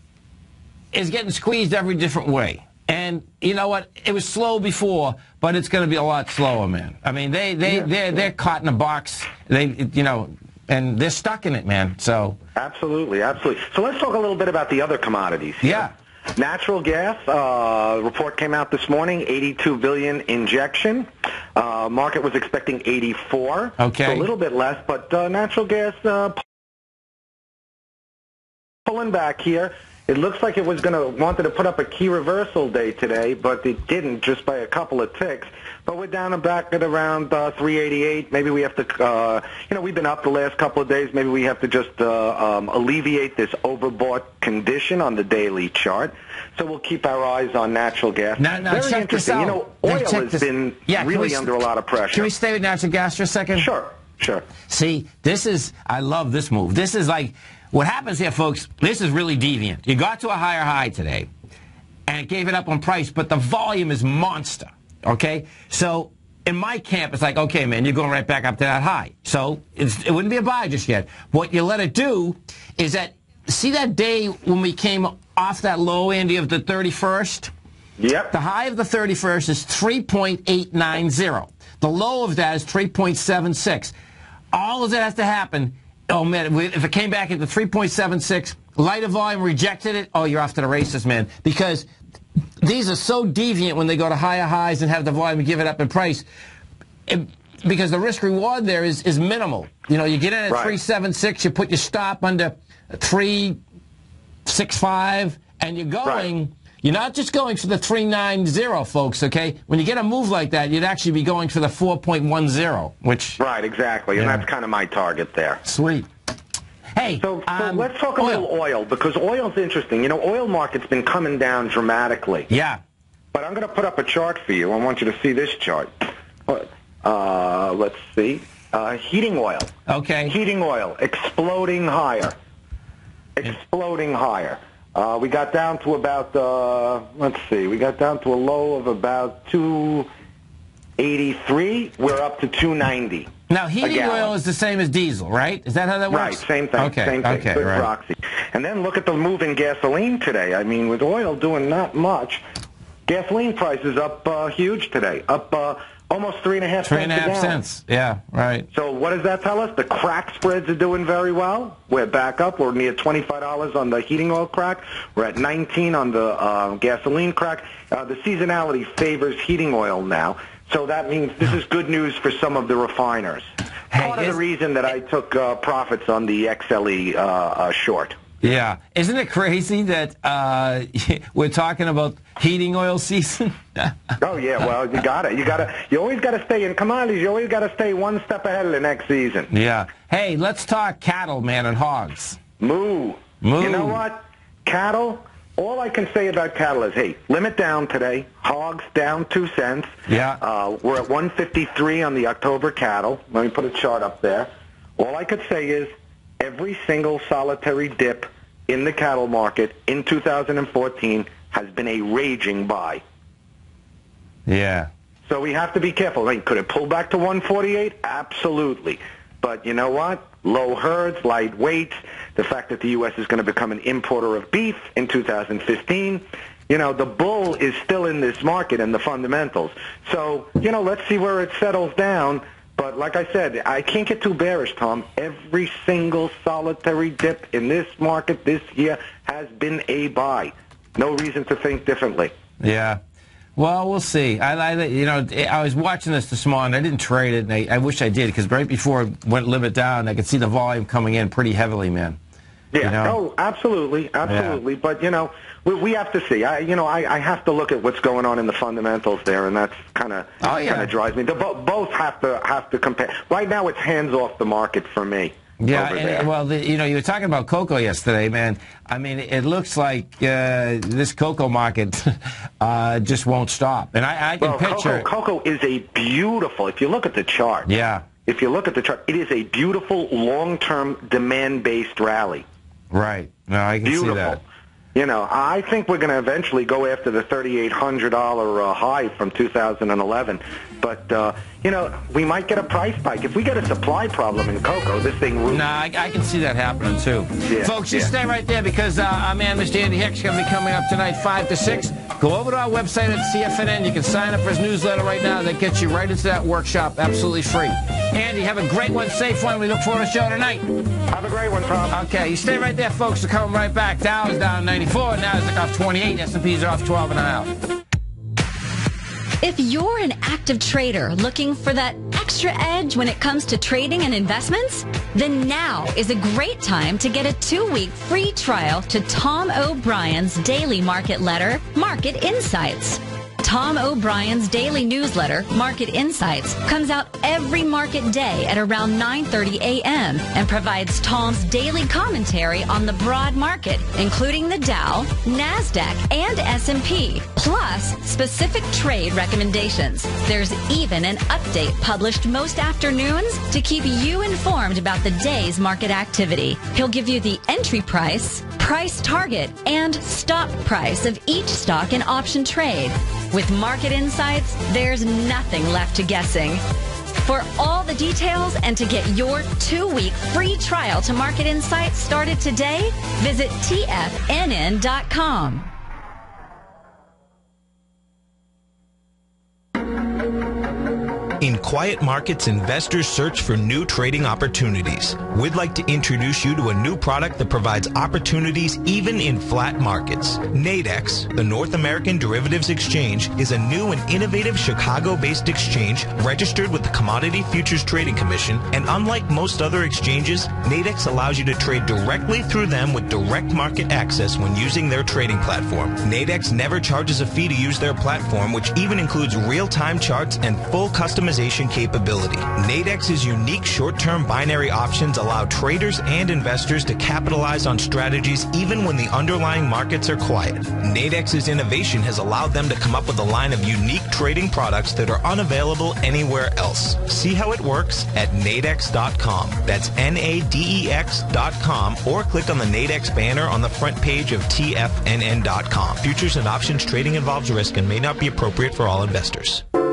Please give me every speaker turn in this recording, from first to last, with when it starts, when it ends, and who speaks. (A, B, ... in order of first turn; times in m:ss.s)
0:00.9-0:12.4 A
0:12.6-0:26.4 B
0:15.6-0:15.9 A
0:23.8-0:24.3 A
0:28.9-0:52.3 B
0:48.4-0:51.5 A
0:52.1-0:53.7 A
0:53.6-0:54.5 B
0:54.7-1:01.3 A
1:02.1-1:17.5 A
1:18.0-1:18.3 B
1:18.3-1:23.9 A
1:24.5-1:31.9 A
1:32.6-1:36.3 A
1:37.1-1:43.6 A
1:40.5-1:40.8 B
1:44.5-1:53.4 A
1:53.4-1:55.6 B
1:54.2-1:54.4 A
1:55.6-1:56.1 A
1:57.0-1:58.5 A
1:57.2-2:02.5 B
2:02.5-2:02.8 A
2:03.3-2:09.7 B
2:09.9-2:10.4 A
2:10.3-2:12.4 B
2:13.4-2:20.1 B
2:21.0-2:23.3 B
2:23.5-2:27.9 A
2:23.8-2:24.3 B
2:26.1-2:32.4 B
2:33.1-2:37.6 B
2:36.8-2:38.7 A
2:38.7-2:58.2 B
2:53.9-2:54.4 A
2:58.4-3:04.0 A
3:04.2-3:09.5 B
3:09.5-3:12.4 A
3:12.6-3:33.0 B
3:13.4-3:14.0 A
3:20.1-3:20.4 A
3:34.5-3:34.9 A
3:35.3-4:02.3 B
4:02.6-4:03.0 A
4:03.6-4:12.2 A
4:12.7-4:26.3 B
4:12.8-4:13.2 A
4:14.3-4:14.6 A
4:20.4-4:20.9 A
4:25.6-4:35.1 A
4:34.4-4:37.7 B
4:37.6-4:38.0 A
4:38.2-4:42.4 B
4:42.9-4:44.4 A
4:43.8-4:44.4 B
4:45.0-4:55.6 B
4:55.5-5:10.6 A
4:57.5-4:58.1 B
5:11.1-5:12.0 B
5:11.9-5:17.5 A
5:19.4-6:06.6 C
6:07.2-6:15.7 C
6:21.4-7:19.6 D